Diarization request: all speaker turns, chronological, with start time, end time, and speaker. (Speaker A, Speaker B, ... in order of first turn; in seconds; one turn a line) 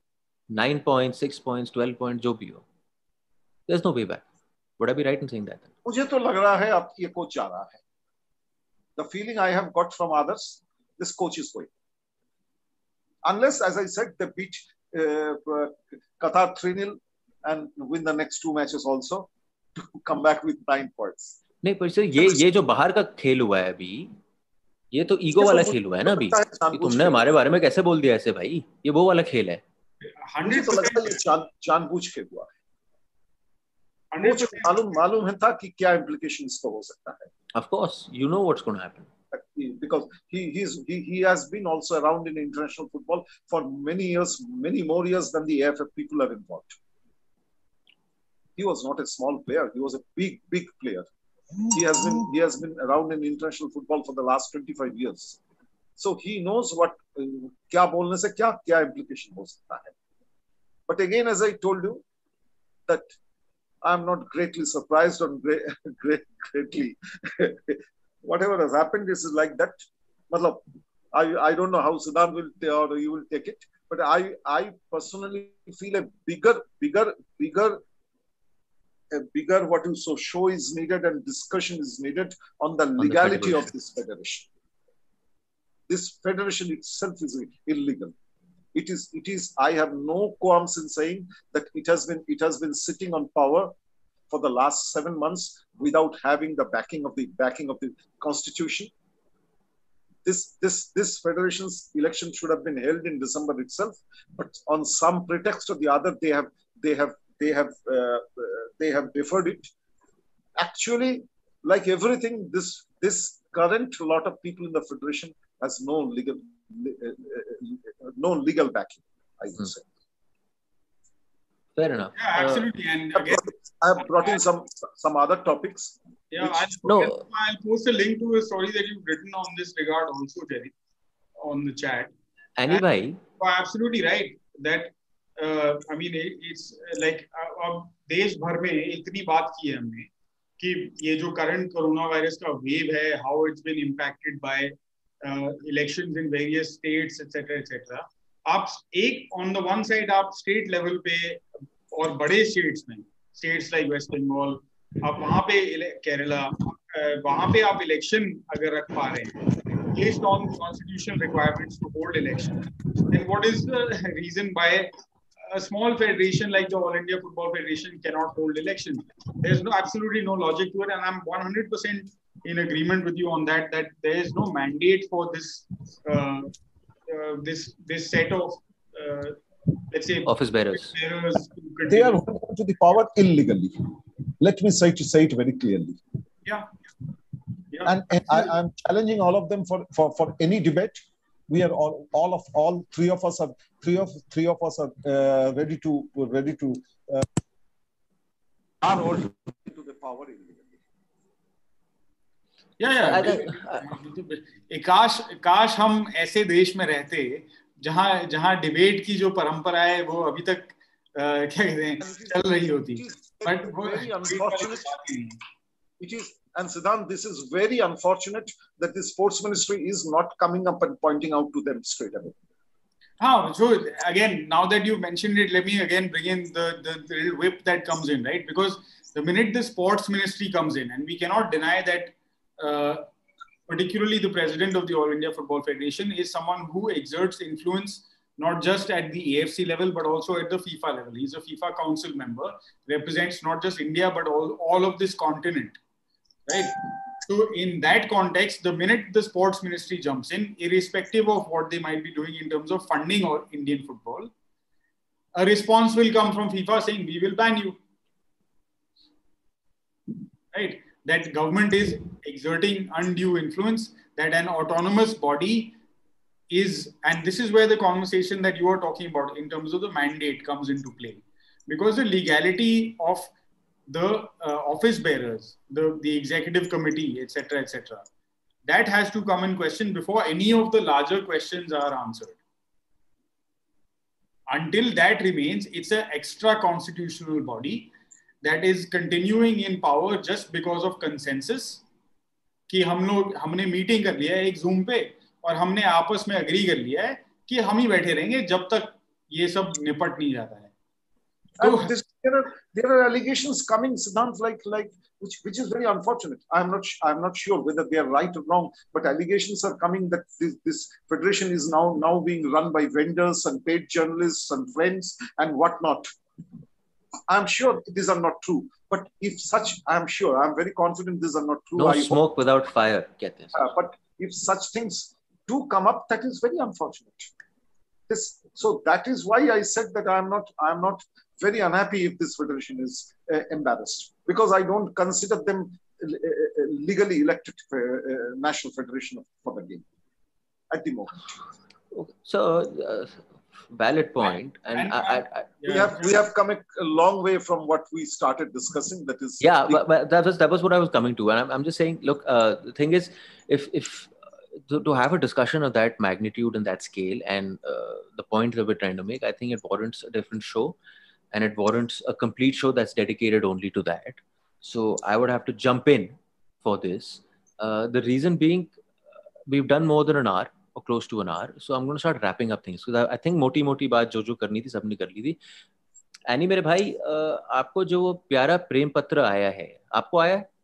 Speaker A: 0.5-2.6
Speaker A: 3.7-4.2
Speaker A: 4.8-5.7
Speaker B: 5.8-7.8
Speaker B: 9.0-11.7
Speaker B: 13.2-21.3
Speaker A: 21.6-24.1
Speaker A: 24.9-29.6
Speaker B: 25.4-27.2
Speaker C: 30.0-31.2
Speaker B: 30.4-32.5
Speaker C: 34.1-34.8
Speaker B: 34.2-37.3
Speaker A: 37.5-39.1
Speaker B: 39.3-46.8
Speaker B: 48.6-51.0
Speaker B: 51.7-55.4
Speaker B: 56.0-59.9
Speaker B: 60.9-62.0
Speaker B: 62.9-63.1
Speaker B: 63.8-69.8
Speaker B: 70.3-70.6
Speaker B: 71.1-77.8
Speaker B: 79.1-84.5
Speaker A: 83.0-83.7
Speaker B: 85.9-88.1
Speaker B: 88.7-93.7
Speaker B: 94.3-98.9
Speaker B: 100.2-109.7
Speaker B: 110.6-119.8
Speaker A: 121.8-122.7
Speaker C: 122.2-124.4
Speaker B: 123.1-126.7
Speaker C: 126.3-130.7
Speaker A: 126.8-127.2
Speaker C: 131.4-132.1
Speaker A: 132.6-133.2
Speaker C: 133.4-164.9
Speaker C: 165.4-176.5
Speaker C: 177.1-182.2
Speaker A: 180.2-180.9
Speaker B: 181.9-186.0
Speaker C: 187.7-188.4
Speaker B: 187.8-197.3
Speaker B: 198.8-200.7
Speaker C: 202.8-215.4
Speaker A: 203.0-204.0
Speaker B: 212.0-214.9
Speaker B: 216.0-222.3
Speaker C: 223.2-233.1
Speaker C: 233.7-245.8
Speaker C: 246.5-254.3
Speaker C: 255.3-257.8
Speaker C: 260.5-265.8
Speaker C: 266.5-273.3
Speaker C: 273.9-278.1
Speaker C: 278.6-282.4
Speaker C: 284.5-287.9
Speaker C: 288.4-291.8
Speaker C: 292.7-300.7
Speaker B: 301.6-316.1
Speaker C: 301.6-301.9
Speaker B: 317.3-322.2
Speaker A: 321.8-323.7
Speaker B: 323.5-327.3
Speaker B: 328.1-339.8
Speaker B: 340.7-341.3
Speaker A: 341.9-345.5
Speaker C: 344.7-346.1
Speaker B: 345.7-349.8
Speaker A: 349.4-354.1
Speaker A: 354.6-360.8
Speaker A: 361.3-368.7
Speaker A: 369.5-375.4
Speaker A: 376.3-380.4